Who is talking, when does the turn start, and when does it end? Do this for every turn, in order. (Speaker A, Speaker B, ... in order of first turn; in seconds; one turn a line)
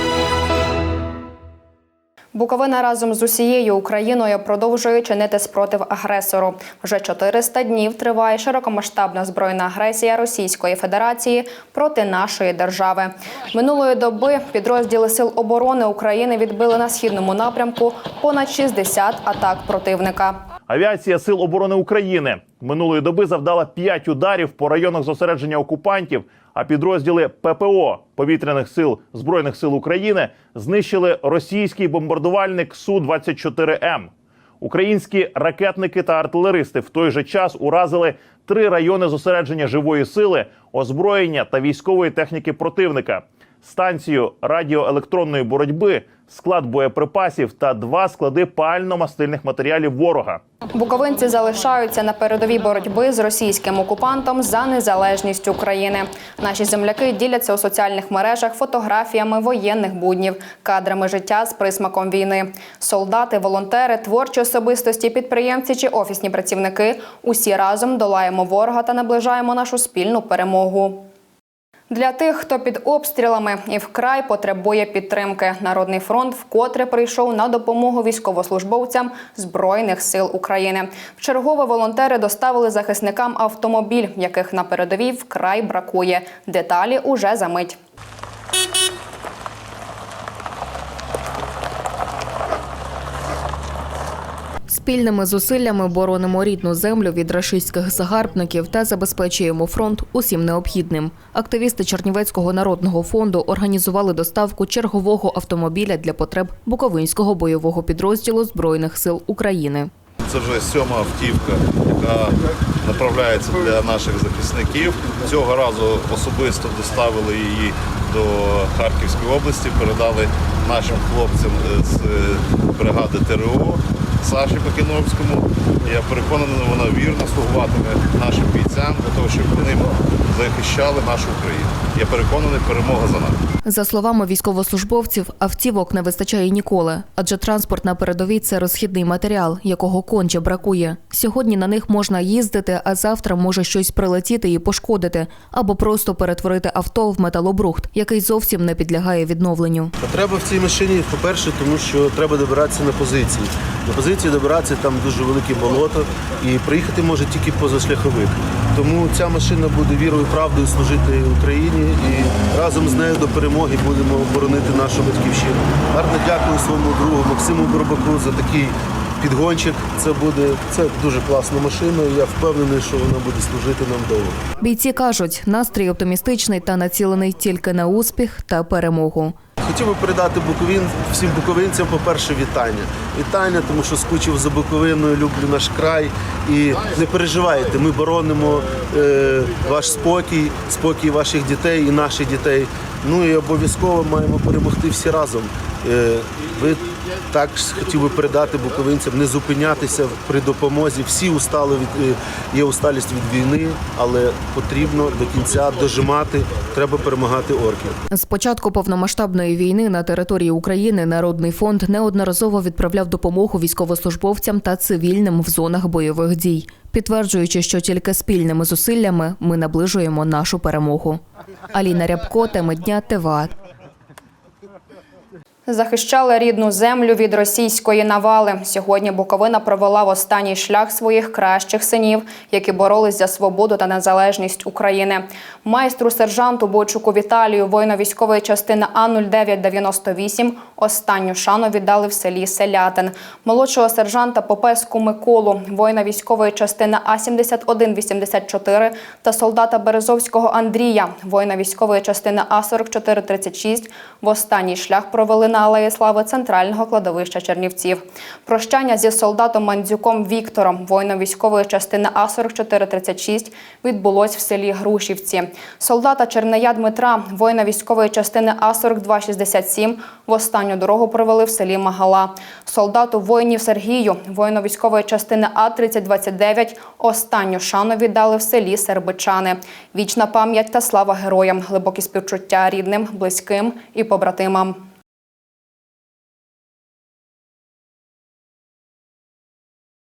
Speaker A: 2.3-20.4
Speaker B: 20.7-50.4
Speaker A: 50.7-71.1
Speaker A: 71.9-87.8
Speaker C: 94.7-109.9
Speaker D: 110.2-133.4
Speaker C: 133.7-149.9
Speaker E: 150.0-174.4
Speaker C: 174.6-179.3
Speaker E: 179.6-208.0
Speaker C: 208.1-221.2
Speaker C: 221.7-223.5
Speaker A: 225.7-284.8